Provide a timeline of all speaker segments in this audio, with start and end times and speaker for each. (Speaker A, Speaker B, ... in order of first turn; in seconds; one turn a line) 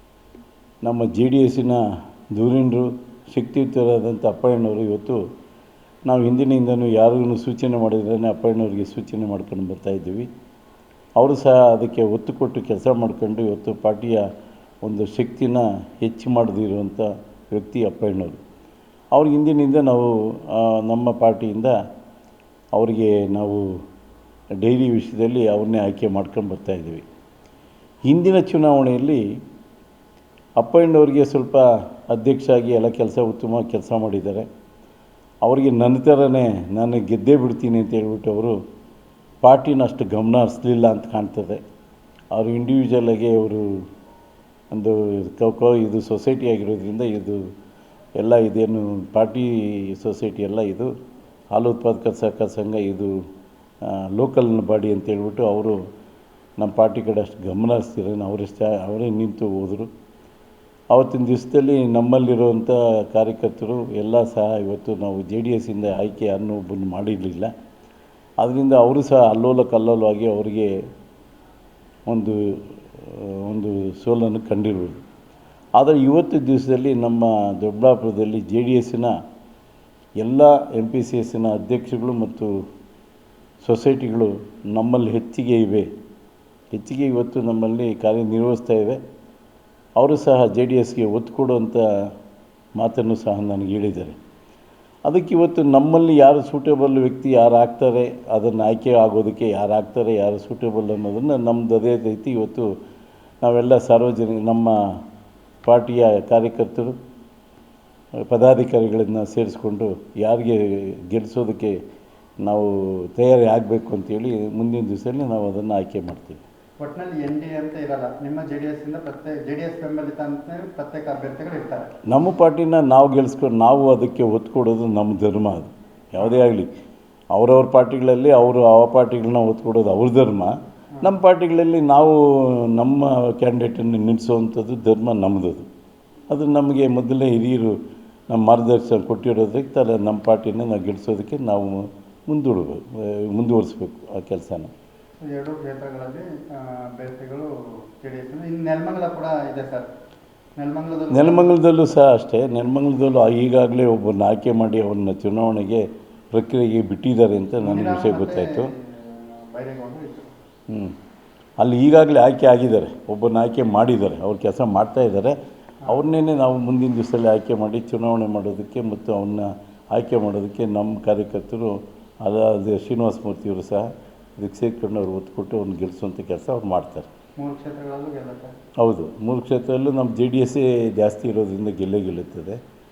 Speaker A: 0.8-1.8
Speaker A: 2.3-5.2
Speaker A: 6.0-10.3
Speaker A: 11.2-14.3
Speaker A: 14.8-18.4
Speaker A: 19.1-21.8
Speaker A: 22.7-23.7
Speaker A: 24.6-27.1
Speaker A: 28.1-29.2
Speaker A: 30.6-34.5
Speaker A: 35.4-38.6
Speaker A: 39.4-41.6
Speaker A: 42.3-43.8
Speaker A: 44.7-47.4
Speaker A: 48.2-50.9
Speaker A: 51.5-53.1
Speaker A: 53.8-55.8
Speaker A: 56.6-59.9
Speaker A: 60.9-67.5
Speaker A: 68.4-70.8
Speaker A: 72.1-75.0
Speaker A: 75.8-79.1
Speaker A: 80.2-82.6
Speaker A: 83.6-85.9
Speaker A: 86.7-89.0
Speaker A: 90.0-91.8
Speaker A: 92.8-94.2
Speaker A: 95.0-102.7
Speaker A: 103.4-105.0
Speaker A: 105.6-107.0
Speaker A: 108.3-111.8
Speaker A: 112.4-116.4
Speaker B: 116.8-122.0
Speaker A: 122.0-126.7
Speaker A: 127.3-135.7
Speaker A: 136.3-137.8
Speaker A: 138.3-144.7
Speaker B: 145.2-149.9
Speaker B: 150.6-151.5
Speaker A: 151.1-158.7
Speaker B: 157.6-160.3
Speaker A: 160.7-160.9
Speaker A: 161.6-177.1
Speaker B: 177.4-178.5
Speaker A: 178.8-182.6